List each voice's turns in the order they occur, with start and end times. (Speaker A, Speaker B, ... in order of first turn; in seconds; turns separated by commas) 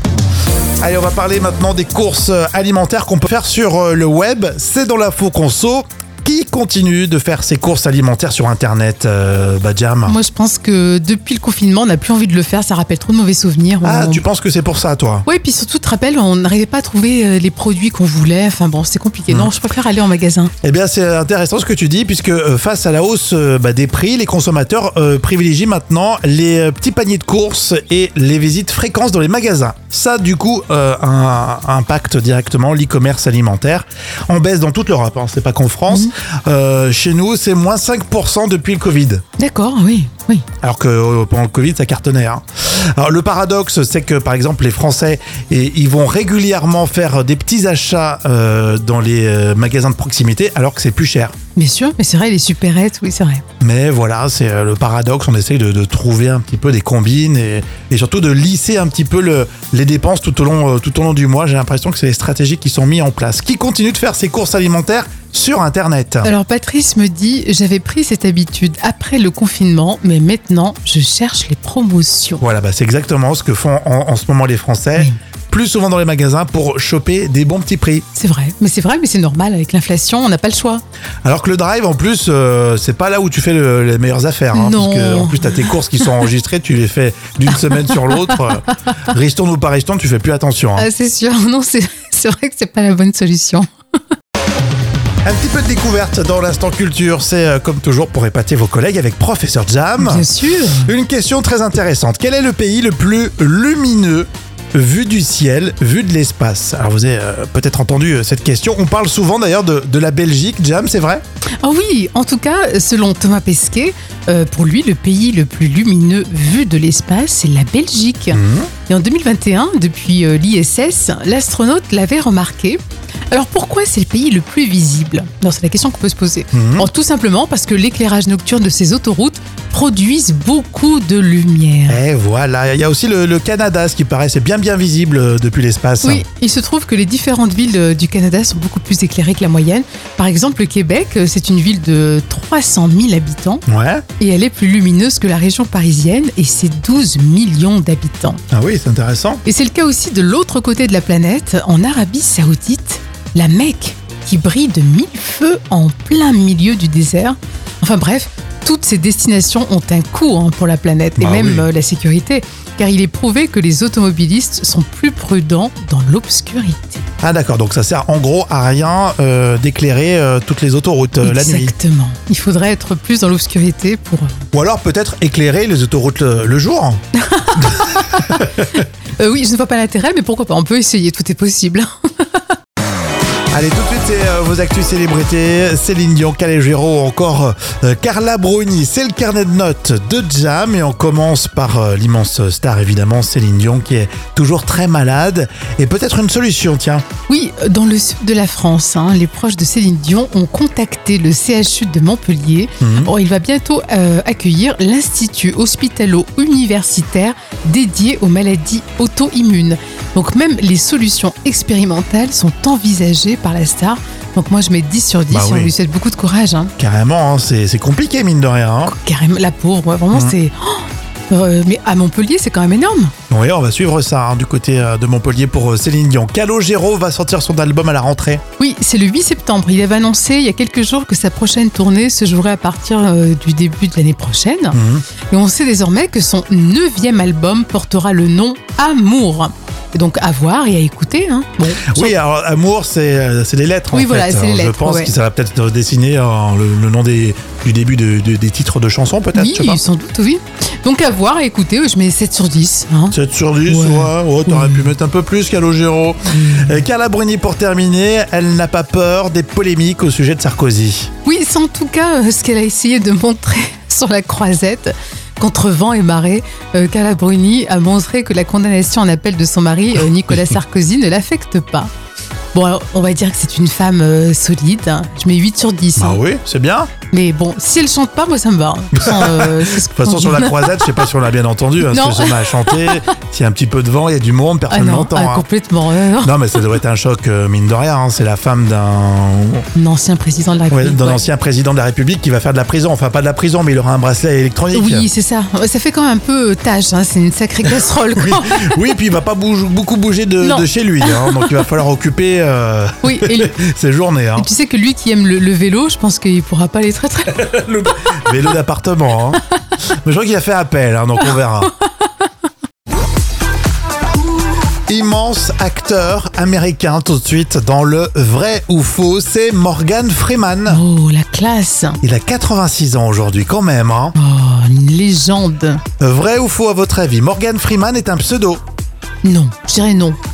Speaker A: 0.8-10.2, Speaker B: 10.1-14.2, Speaker A: 13.8-15.2, Speaker B: 15.2-20.5, Speaker A: 20.6-39.2, Speaker B: 39.4-40.5, Speaker A: 40.6-51.3, Speaker B: 51.5-53.4, Speaker A: 53.6-66.3, Speaker B: 66.2-72.4, Speaker A: 72.4-78.0, Speaker B: 78.1-80.8, Speaker A: 81.2-90.9, Speaker B: 84.5-86.1, Speaker B: 87.7-88.2, Speaker B: 90.8-93.7, Speaker A: 95.2-100.3, Speaker B: 100.0-100.9, Speaker A: 100.8-111.2, Speaker B: 111.6-122.8, Speaker A: 118.3-118.7, Speaker B: 123.3-132.0, Speaker A: 126.5-126.9, Speaker A: 131.9-136.2, Speaker B: 136.0-143.6, Speaker A: 143.7-144.0, Speaker B: 144.2-148.4, Speaker A: 148.5-149.4, Speaker B: 149.4-167.1, Speaker A: 161.2-161.7, Speaker A: 167.2-171.7, Speaker B: 171.2-174.4, Speaker A: 174.5-177.0, Speaker B: 177.2-178.4, Speaker B: 179.2-181.9, Speaker A: 183.5-197.0, Speaker B: 197.3-216.7, Speaker A: 202.8-203.1, Speaker A: 215.3-215.7, Speaker A: 216.8-218.9, Speaker B: 218.8-223.1, Speaker A: 223.3-228.4, Speaker B: 228.6-234.8, Speaker A: 234.7-235.0, Speaker B: 235.3-242.1, Speaker A: 241.8-249.8, Speaker B: 243.9-245.1, Speaker B: 249.3-254.9, Speaker A: 253.1-261.1, Speaker B: 256.3-256.8, Speaker B: 261.2-271.9, Speaker B: 272.5-276.2, Speaker A: 275.9-276.9, Speaker B: 277.1-280.9, Speaker A: 279.0-285.4, Speaker B: 281.9-282.9, Speaker B: 284.7-286.4, Speaker A: 286.2-289.6, Speaker B: 289.7-291.2, Speaker A: 290.7-295.1, Speaker B: 294.7-298.7, Speaker A: 298.1-304.5, Speaker B: 300.4-301.5, Speaker B: 303.0-303.5, Speaker B: 304.4-307.4, Speaker A: 307.4-309.4, Speaker A: 310.0-311.7, Speaker A: 314.9-320.8, Speaker B: 320.7-322.0, Speaker A: 322.0-324.1, Speaker B: 324.1-325.8, Speaker A: 326.0-328.6, Speaker B: 329.2-330.2